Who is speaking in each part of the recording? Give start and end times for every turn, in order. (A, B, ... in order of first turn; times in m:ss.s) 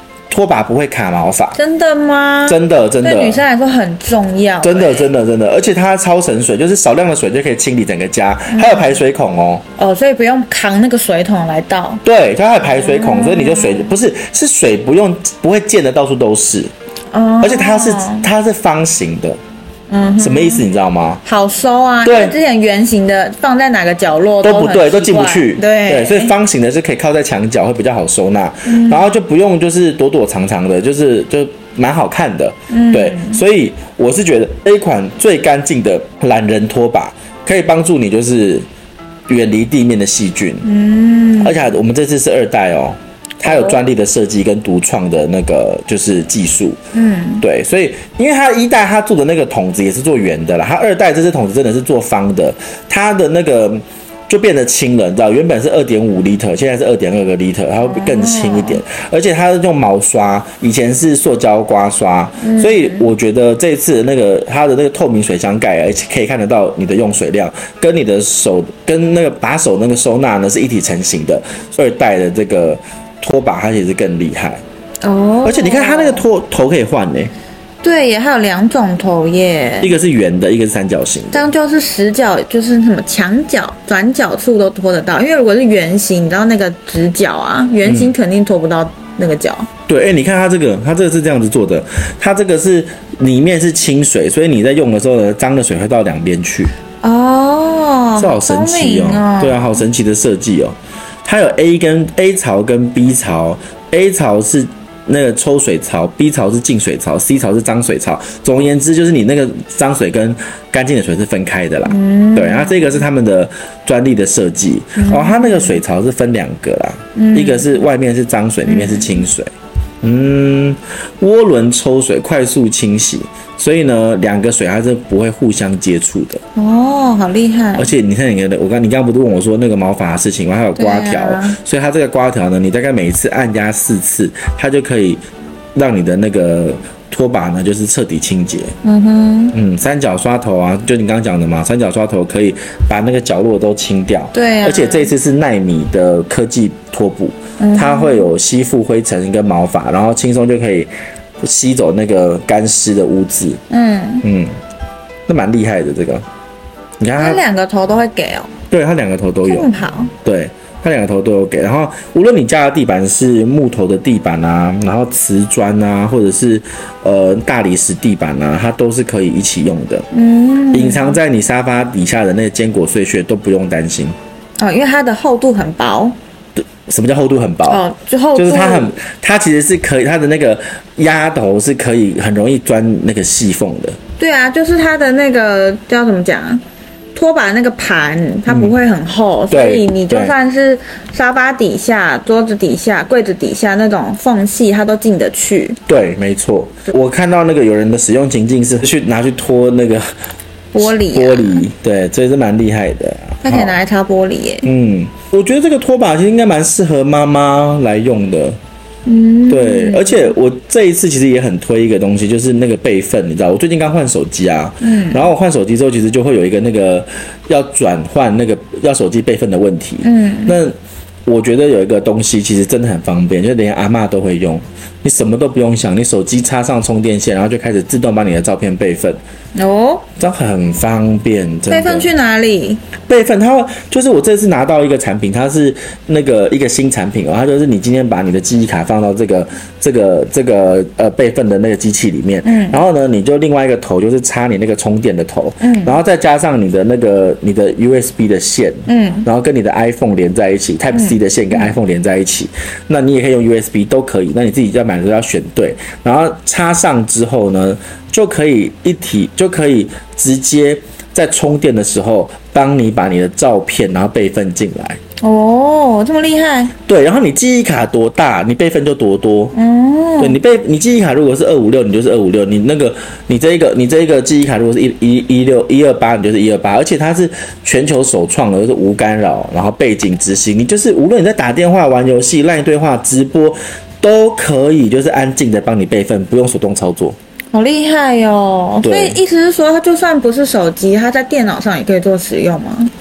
0:00.3-0:01.6 A
0:01.5-0:05.1 B
0:02.5-0:03.4 A
0:04.6-0:09.6 A
0:08.5-0:09.0 B
0:09.8-0:12.0 B
0:12.0-0:16.7 A
0:12.7-0:13.9 B
0:17.1-0:18.3 B
0:17.4-0:19.4 A
0:19.9-0:20.6 B
0:20.2-0:21.2 A
0:21.2-0:26.3 B
0:22.0-0:22.4 A
0:24.4-0:38.6 A
0:28.6-0:29.1 B
0:32.7-0:33.4 B
0:39.3-0:40.6 A
0:40.6-0:41.7 B
0:41.4-0:46.8 A
0:43.4-0:43.8 B
0:46.9-0:47.4 B
0:47.4-1:14.6 A
0:57.8-0:58.8 B
1:02.4-1:03.1 B
1:15.0-1:16.2 B
1:15.4-1:17.3 A
1:17.8-1:19.9 B
1:19.8-1:21.4 A
1:21.3-1:29.7 B
1:27.8-1:28.1 A
1:29.9-1:36.7 A
1:37.0-1:39.8 B
1:38.2-1:59.5 A
1:51.8-1:53.0 B
1:55.0-1:55.8 B
1:57.1-1:57.6 B
1:58.6-1:59.2 B
2:00.0-2:06.4 A
2:06.5-2:07.9 B
2:07.8-2:15.2 A
2:10.8-2:11.6 B
2:15.7-2:18.7 A
2:18.8-2:19.5 B
2:19.5-2:30.9 A
2:24.3-2:25.1 B
2:27.6-2:28.3 B
2:31.4-2:33.6 A
2:33.7-2:34.2 B
2:34.2-2:34.5 A
2:35.3-2:36.2 A
2:37.0-2:37.4 A
2:37.2-2:38.5 B
2:38.7-2:39.7 A
2:39.4-2:40.1 B
2:40.2-2:50.0 A
2:50.1-2:51.2 B
2:50.7-2:54.2 A
2:54.6-2:56.2 B
2:56.6-2:57.8 A
2:57.7-2:58.9 B
2:58.4-3:04.0 A
3:04.2-3:06.6 B
3:07.1-3:15.8 B
3:08.5-3:08.7 A
3:09.5-3:10.3 A
3:15.9-3:20.1 A
3:20.7-3:21.6 B
3:20.8-3:23.7 A
3:23.4-3:24.7 B
3:24.6-3:28.6 A
3:29.0-3:30.3 B
3:29.5-3:40.7 A
3:34.8-3:35.3 B
3:40.0-3:40.6 B
3:41.2-3:49.2 A
3:49.5-3:50.1 B
3:50.2-3:52.1 A
3:51.7-3:52.8 B
3:53.1-4:25.0 A
4:02.4-4:02.8 B
4:05.6-4:06.0 B
4:08.9-4:09.3 B
4:10.9-4:11.7 B
4:25.2-4:26.7 B
4:26.9-4:29.5 A
4:29.5-4:30.4 B
4:30.2-4:47.2 A
4:47.5-4:52.9 B
4:48.8-4:49.2 A